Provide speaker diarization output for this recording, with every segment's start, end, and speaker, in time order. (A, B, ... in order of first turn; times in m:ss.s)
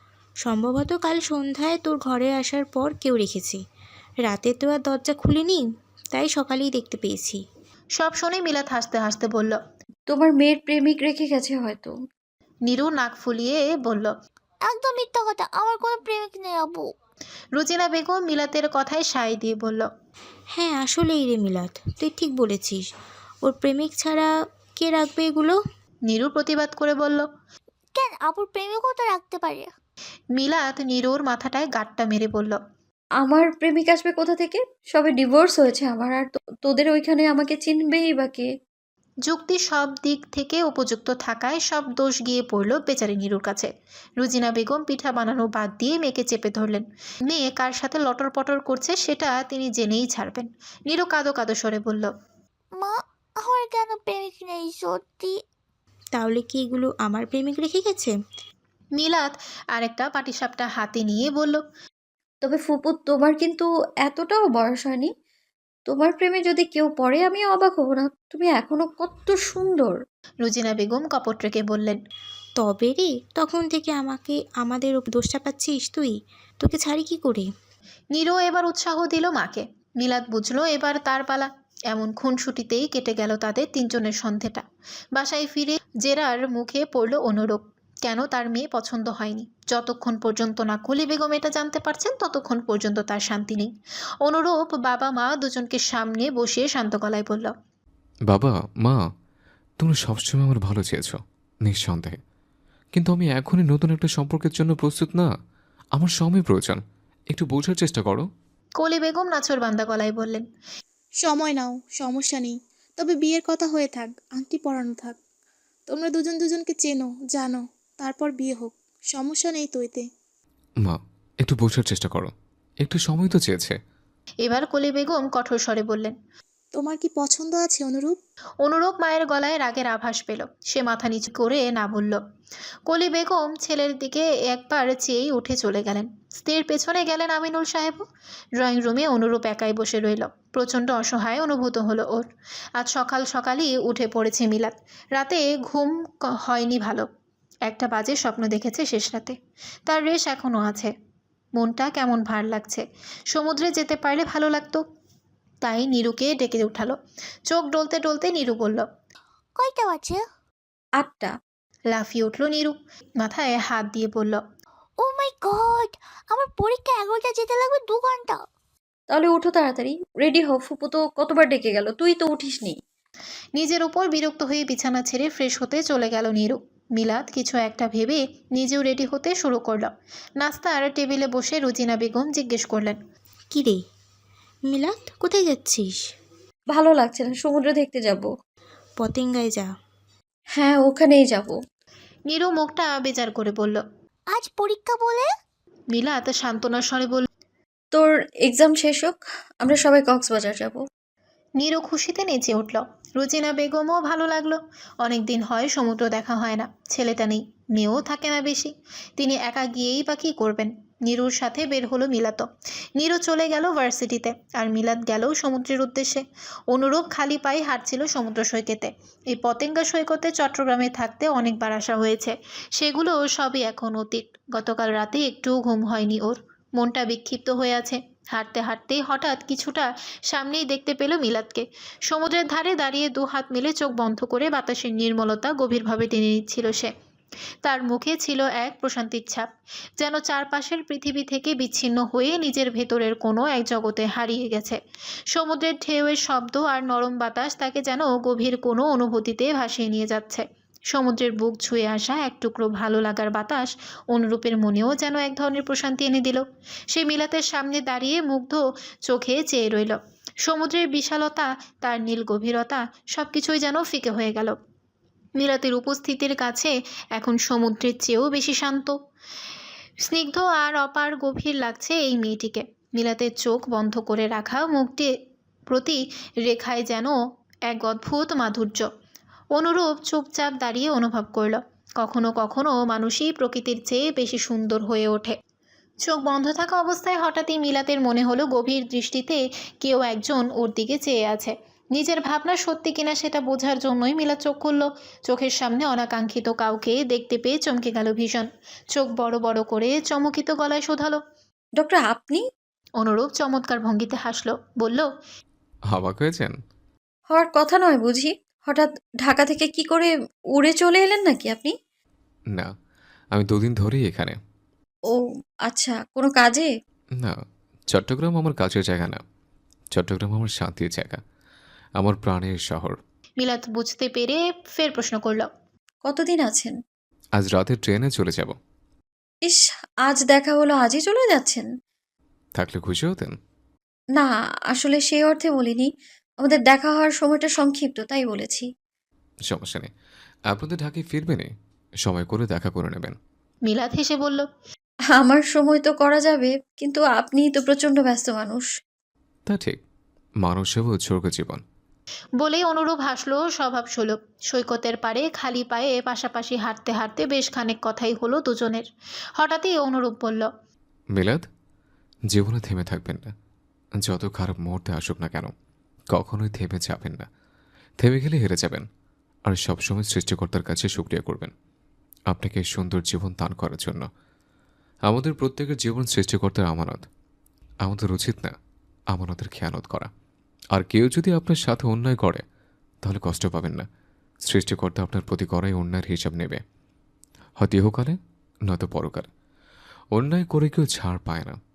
0:00.4-0:03.6 A
0:04.2-0:07.4 A
0:07.9-0:09.6 B
0:10.1-0:11.9 C
0:12.6-0:14.1 B
0:14.6-0:16.9 D
0:17.5-0:19.9 B
0:20.5-0:22.8 A
0:23.4-0:24.3 A
0:24.8-0:25.6 A
0:26.0-0:27.2 B
0:27.9-0:29.7 D
0:30.3-0:32.6 B
0:33.2-0:38.5 C
0:39.2-0:52.1 B
0:52.8-0:55.4 D
0:56.1-0:58.1 A
0:59.0-1:01.6 B
1:02.4-1:05.1 C
1:05.9-1:10.0 C
1:10.4-1:12.0 B
1:12.6-1:17.4 A
1:18.1-1:24.6 B
1:25.1-1:33.7 B
1:34.2-1:37.5 B
1:38.3-1:39.0 E
1:39.8-1:42.2 E
1:42.9-1:45.3 E
1:45.9-1:48.2 E
1:48.8-1:50.4 B
1:51.2-1:55.2 F
1:55.9-2:00.0 F
2:00.8-2:03.8 E
2:04.4-2:06.1 B
2:06.7-2:08.2 F
2:08.6-2:12.2 B
2:12.9-2:18.0 B
2:18.6-2:27.0 B
2:27.6-2:29.4 B
2:29.9-2:30.9 B
2:31.6-2:34.8 B
2:35.6-2:37.0 B
2:37.5-2:38.8 B
2:39.6-2:40.2 D
2:41.0-2:41.3 C
2:41.9-2:44.4 B
2:45.0-2:48.4 D
2:49.1-2:52.8 C
2:53.6-3:03.0 B
3:03.5-3:03.8 A
3:04.7-3:06.0 A
3:06.7-3:08.3 C
3:09.0-3:09.7 A
3:10.6-3:11.5 C
3:12.3-3:13.8 B
3:14.3-3:15.3 D
3:15.9-3:17.3 B
3:17.9-3:20.8 C
3:21.6-3:32.4 B
3:33.0-3:56.9 B
3:57.6-3:59.4 B
4:00.0-4:04.8 B
4:05.3-4:24.6 B
4:25.4-4:29.0 B
4:30.0-4:35.1 B
4:35.7-4:37.2 B
4:37.7-4:38.9 B
4:39.5-4:45.4 B
4:46.0-5:01.2 B
5:01.8-5:02.4 C
5:03.0-5:05.1 B
5:05.9-5:06.5 E
5:07.3-5:11.7 C
5:13.3-5:14.4 E
5:15.1-5:16.7 C
5:17.9-5:19.2 E
5:19.9-5:21.2 E
5:22.0-5:23.0 E
5:23.4-5:25.5 B
5:26.0-5:26.7 C
5:27.4-5:28.6 E
5:29.4-5:31.7 C
5:32.5-5:33.3 E
5:34.2-5:35.9 C
5:36.4-5:38.6 C
5:39.5-5:39.9 E
5:40.5-5:41.5 E
5:42.0-5:43.2 E
5:43.6-5:44.5 B
5:45.2-5:48.7 C
5:49.5-5:49.8 E
5:50.4-5:51.6 E
5:52.4-5:58.8 B
5:59.4-6:00.5 B
6:01.1-6:01.4 E
6:02.3-6:03.3 E
6:04.0-6:05.5 E
6:06.1-6:07.2 E
6:08.0-6:08.8 E
6:09.4-6:11.5 E
6:12.3-6:14.1 E
6:15.1-6:17.0 E
6:17.8-6:18.5 E
6:19.1-6:20.1 E
6:20.7-6:22.4 E
6:23.0-6:23.8 E
6:24.5-6:26.6 E
6:27.6-6:29.3 E
6:30.1-6:31.6 E